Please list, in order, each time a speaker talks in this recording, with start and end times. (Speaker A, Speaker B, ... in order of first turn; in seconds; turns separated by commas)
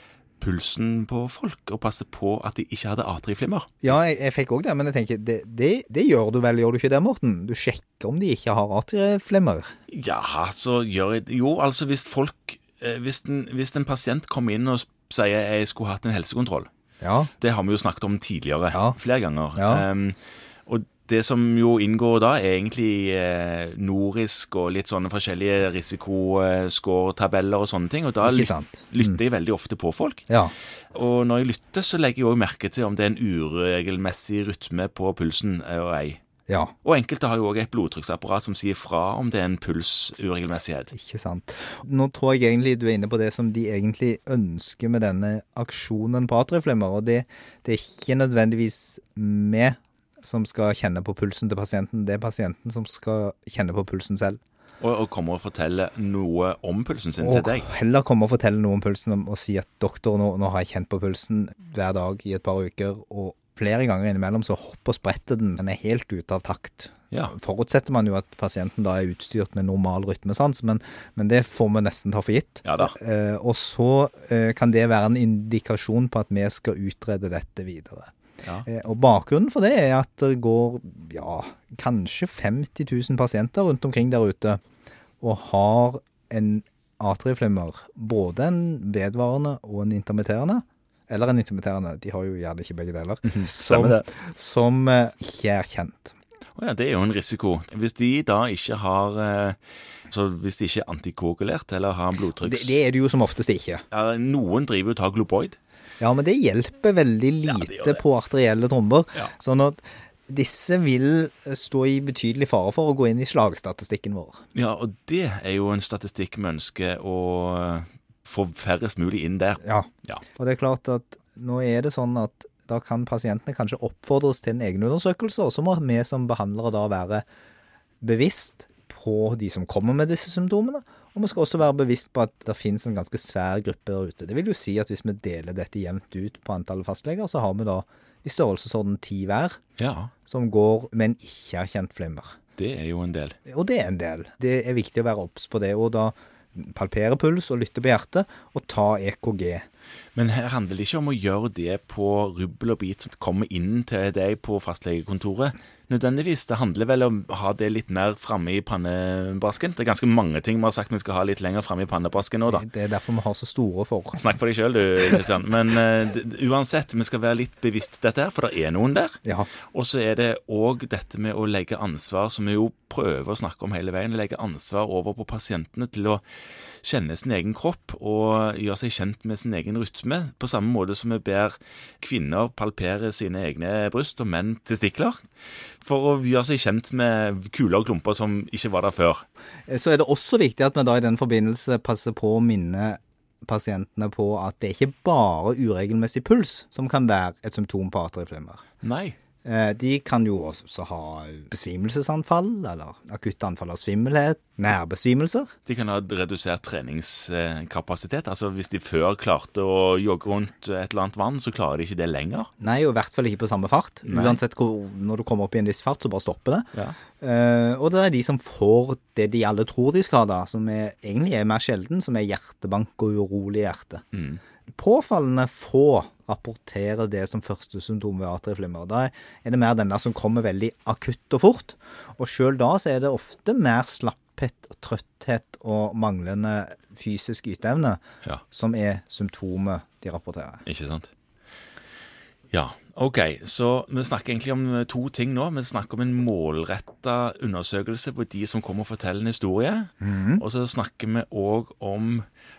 Speaker A: 0.4-3.9, Speaker B: 3.8-9.7, Speaker A: 9.9-16.7, Speaker B: 17.0-17.3, Speaker A: 17.4-30.2, Speaker B: 18.7-19.0, Speaker B: 19.6-19.9, Speaker B: 28.2-29.2, Speaker B: 30.3-30.5, Speaker A: 30.9-36.2, Speaker B: 36.5-36.7, Speaker A: 36.8-40.9, Speaker B: 40.9-54.4, Speaker A: 54.8-57.7, Speaker B: 57.2-78.1, Speaker A: 72.6-72.9, Speaker B: 78.7-84.6, Speaker B: 85.2-96.2, Speaker A: 93.2-94.1, Speaker A: 96.6-99.6, Speaker A: 100.1-102.8, Speaker B: 102.4-103.8, Speaker A: 103.9-105.6, Speaker B: 106.0-114.4, Speaker A: 107.5-108.0, Speaker A: 114.5-120.2, Speaker B: 119.6-127.2, Speaker B: 128.0-139.6, Speaker A: 139.8-140.1, Speaker B: 140.3-142.4, Speaker A: 142.6-143.4, Speaker B: 143.5-149.7, Speaker A: 150.2-162.7, Speaker B: 162.5-164.3, Speaker A: 164.1-176.2, Speaker B: 169.2-169.5, Speaker A: 176.8-185.2, Speaker A: 185.8-189.2, Speaker B: 189.7-198.6, Speaker A: 198.8-199.2, Speaker B: 199.4-205.5, Speaker A: 205.7-212.5, Speaker B: 212.6-224.0, Speaker A: 214.1-214.4, Speaker A: 224.1-224.4, Speaker B: 224.7-238.0, Speaker B: 238.5-240.6, Speaker A: 240.7-241.1, Speaker A: 242.5-252.2, Speaker B: 250.0-250.4